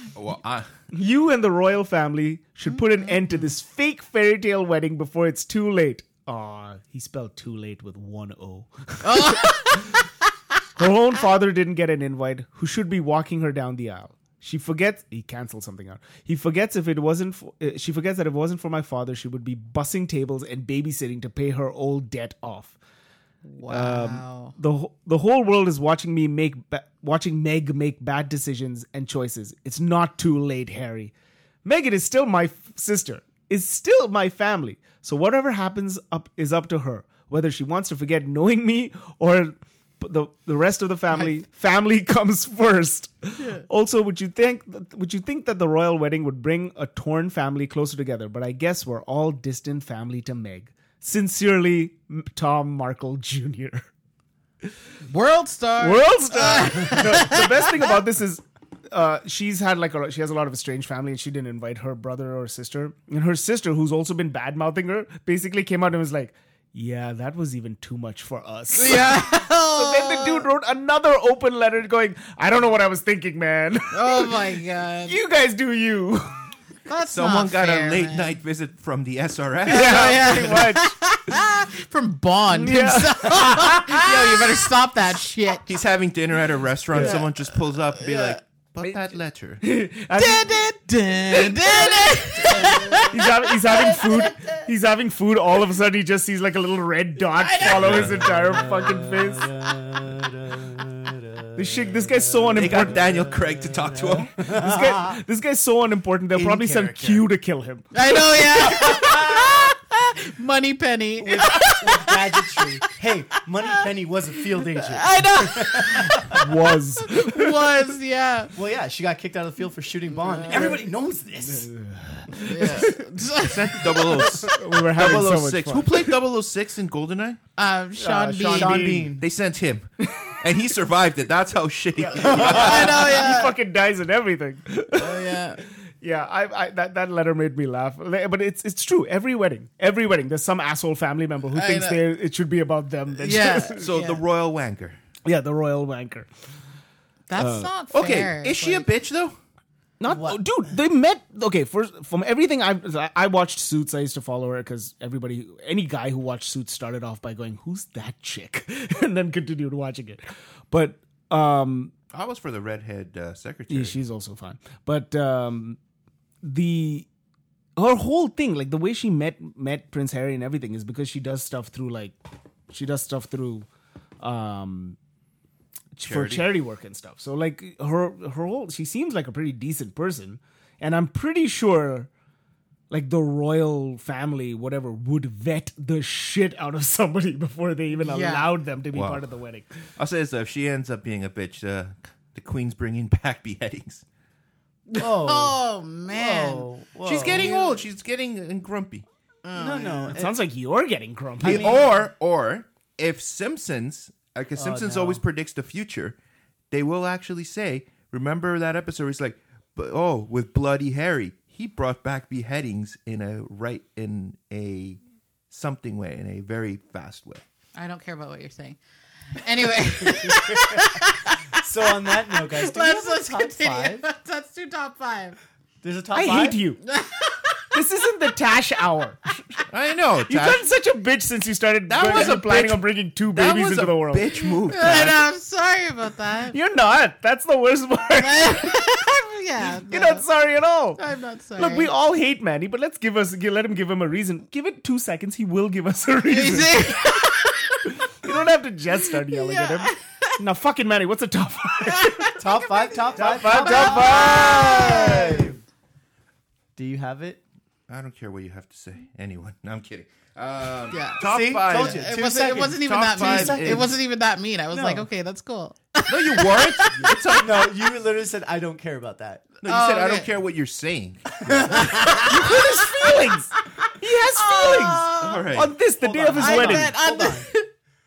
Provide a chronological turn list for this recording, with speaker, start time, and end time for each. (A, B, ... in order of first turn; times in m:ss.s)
0:00.1-0:00.7 A
0:00.9-0:09.8 B
0:02.7-0:03.5 C
0:09.0-0:09.9 C
0:10.8-0:22.8 B
0:23.4-0:24.5 C
0:23.7-0:31.1 B
0:31.6-0:53.8 B
0:43.4-0:43.6 C
0:55.1-0:57.8 C
0:55.8-1:16.4 B
1:08.7-1:10.4 C
1:13.9-1:15.2 C
1:16.8-1:18.3 C
1:17.1-1:20.7 A
1:19.6-1:20.9 B
1:19.7-1:25.7 C
1:22.5-1:24.6 B
1:25.6-1:29.6 A
1:26.9-1:27.3 B
1:27.0-1:27.4 C
1:28.0-1:28.4 C
1:28.8-1:30.7 B
1:30.1-1:34.2 C
1:31.3-1:39.5 B
1:32.4-1:33.1 D
1:37.3-1:38.0 C
1:37.6-1:38.2 A
1:37.8-1:45.2 D
1:41.5-1:43.0 B
1:42.5-1:44.4 A
1:44.5-1:47.9 B
1:46.3-1:47.3 D
1:47.9-1:52.9 C
1:48.5-1:49.6 D
1:51.2-1:56.4 D
1:54.6-1:58.5 C
1:56.3-1:57.8 B
1:58.5-2:01.7 D
2:00.1-2:00.8 C
2:00.5-2:00.8 B
2:01.4-2:03.0 B
2:02.4-2:04.6 C
2:03.4-2:07.4 A
2:04.4-2:06.1 B
2:07.6-2:09.0 C
2:08.0-2:09.1 B
2:08.4-2:09.2 D
2:08.7-2:13.1 A
2:10.0-2:10.4 B
2:12.1-2:12.9 D
2:12.1-2:13.5 C
2:12.2-2:23.9 B
2:14.9-2:15.6 C
2:21.5-2:22.0 C
2:23.2-2:24.2 C
2:23.8-2:25.0 A
2:25.2-2:26.3 B
2:27.3-2:28.9 C
2:27.4-2:27.7 B
2:27.9-2:29.4 A
2:30.0-2:41.9 B
2:30.0-2:30.7 D
2:42.1-2:44.0 A
2:43.7-2:45.8 B
2:46.4-2:47.1 B
2:47.8-2:52.2 B
2:52.7-2:53.7 B
2:54.2-2:55.0 B
2:55.9-3:02.1 B
2:56.0-2:56.5 A
3:02.9-3:09.7 B
3:08.0-3:08.5 C
3:08.9-3:09.2 A
3:10.0-3:14.0 A
3:14.9-3:16.7 C
3:15.0-3:17.5 D
3:17.0-3:19.0 A
3:17.2-3:17.8 C
3:19.4-3:20.1 C
3:19.5-3:20.4 D
3:20.1-3:21.8 B
3:21.4-3:21.9 D
3:21.4-3:26.2 A
3:24.6-3:25.2 D
3:26.7-3:35.0 A
3:35.5-3:37.4 A
3:37.7-3:38.8 C
3:39.3-3:41.6 C
3:40.0-3:40.9 D
3:41.5-3:44.1 D
3:42.2-3:45.4 C
3:45.8-3:46.6 D
3:46.1-3:46.8 B
3:46.8-3:47.7 C
3:47.7-3:49.4 B
3:49.7-3:50.7 A
3:50.3-3:54.4 B
3:51.9-3:55.3 A
3:54.6-3:56.6 C
3:56.5-3:58.8 B
3:58.2-4:00.2 C
3:59.9-4:01.0 B
4:01.0-4:01.9 C
4:01.6-4:07.0 B
4:06.3-4:07.9 C
4:07.8-4:12.3 B
4:09.1-4:10.4 C
4:11.8-4:15.5 C
4:12.4-4:15.6 D
4:13.1-4:15.3 B
4:16.8-4:17.4 D
4:17.9-4:23.9 A
4:20.9-4:27.3 C
4:21.2-4:24.0 D
4:24.7-4:25.1 D
4:26.1-4:27.7 A
4:27.0-4:29.5 D
4:29.6-4:32.2 A
4:29.6-4:30.3 C
4:31.4-4:32.4 D
4:31.7-4:33.1 C
4:32.2-4:36.9 B
4:34.3-4:35.5 C
4:35.2-4:35.7 A
4:36.0-4:37.5 D
4:36.3-4:37.7 C